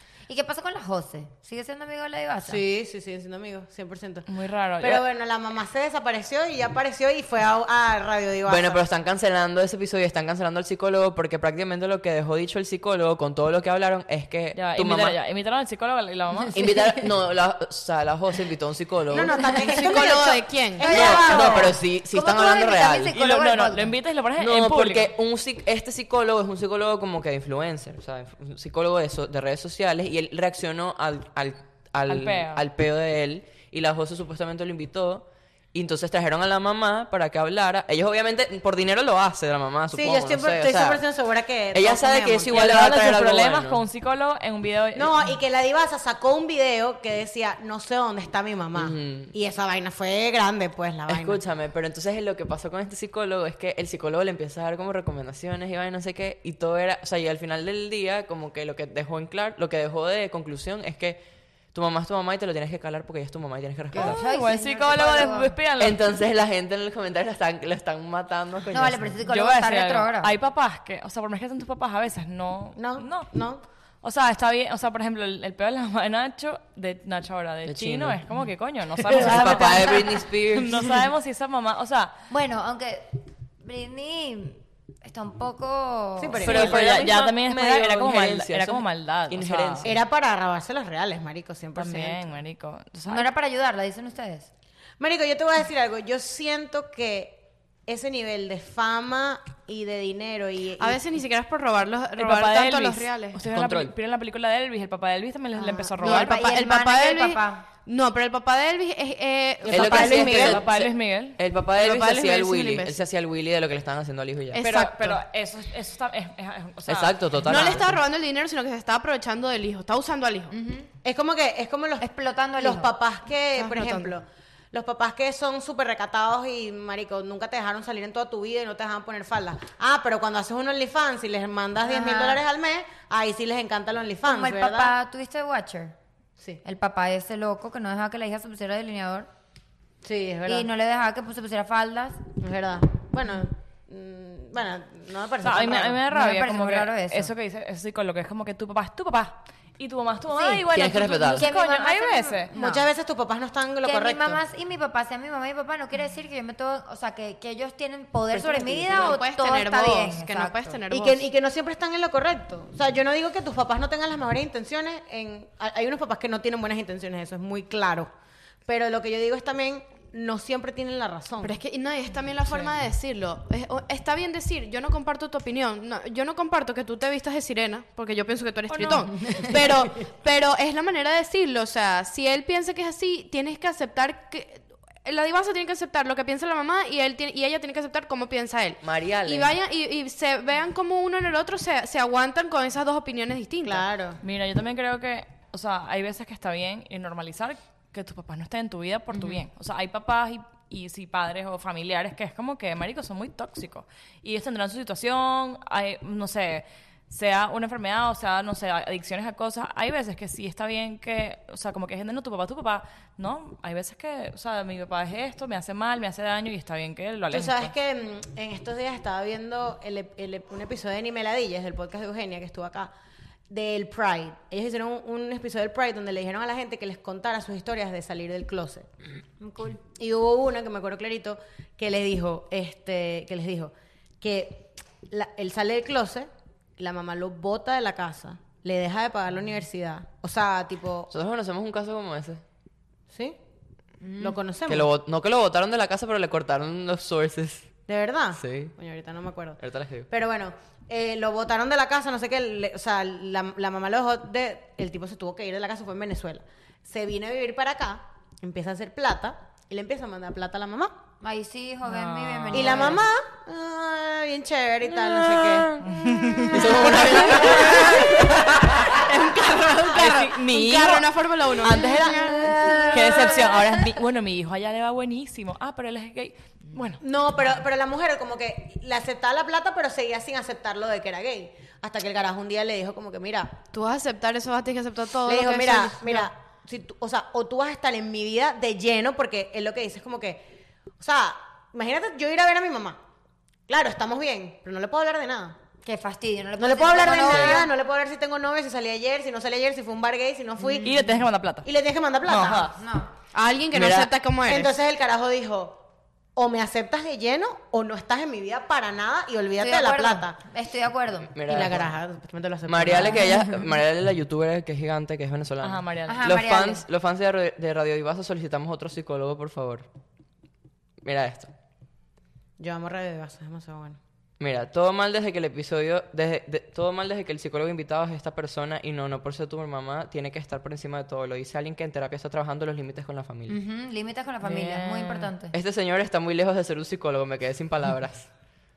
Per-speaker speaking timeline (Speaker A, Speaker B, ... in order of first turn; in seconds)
Speaker A: 0.3-2.6, 20.8-24.0, 63.9-65.6, 68.7-70.3, 79.4-79.9, 82.3-86.6, 93.1-94.5, 105.6-107.6, 120.5-120.9, 122.0-122.9, 131.8-132.4, 134.2-135.9, 136.6-139.3, 140.5-142.3, 146.1-147.3, 150.3-150.7, 151.3-152.9, 153.8-160.8, 199.1-199.4, 229.4-229.8, 244.0-244.4, 261.2-263.1, 272.1-272.8, 295.8-297.7, 300.6-301.1, 302.3-303.1, 309.6-311.4, 313.2-313.6, 316.1-316.9, 333.5-335.5
Speaker B: 2.5-4.3, 4.8-8.8, 19.1-21.8, 39.9-42.7, 45.0-51.4, 72.8-73.6, 86.2-86.9, 89.8-92.2, 95.0-101.0, 109.7-110.5, 121.0-134.9, 140.0-140.7, 142.4-146.0, 152.5-154.4, 158.4-159.1, 160.9-168.1, 168.7-171.6, 193.6-194.2, 217.3-222.9, 223.5-228.9, 230.0-241.1, 243.1-243.4, 244.2-244.9, 247.9-261.0, 262.5-265.8, 266.4-270.3, 271.6-273.6, 277.0-283.6, 285.3-290.4, 291.0-293.0, 293.7-295.6, 296.6-301.0, 301.6-302.7, 304.4-305.8, 306.4-310.4, 311.4-313.3, 322.6-324.0
Speaker C: 4.3-5.1, 14.5-16.7, 23.1-25.1, 32.1-32.6, 42.5-45.1, 63.9-66.0, 69.3-73.4, 74.0-82.2, 86.5-89.9, 91.8-93.3, 102.2-106.4, 109.8-111.4, 114.6-117.2, 145.4-152.5, 178.7-179.5, 194.2-217.7, 261.8-263.0, 265.8-266.8, 269.9-271.0, 272.9-277.0, 300.8-301.7, 302.2-302.8, 315.6-316.3, 334.4-335.3
Speaker D: 8.5-15.2, 16.5-19.5, 20.9-23.2, 24.4-41.0, 41.7-43.8, 48.8-49.3, 51.1-61.2, 61.7-64.2, 65.8-69.2, 77.6-78.2, 79.1-80.9, 86.4-90.0, 103.5-103.9, 109.7-114.6, 116.9-117.9, 150.7-151.5, 188.8-189.5, 241.1-242.4, 244.7-247.7, 248.3-248.7, 249.6-250.1, 264.8-269.0, 297.2-297.6, 303.7-304.1, 311.3-311.9, 312.7-319.9, 321.0-321.5, 324.4-333.6, 335.5-338.3
Speaker E: 19.7-21.1, 100.8-103.4, 106.0-110.6, 111.8-113.0, 114.5-115.2, 117.5-120.5, 123.5-124.1, 158.7-161.2, 171.4-193.9, 270.0-272.3, 283.7-286.3, 303.3-304.8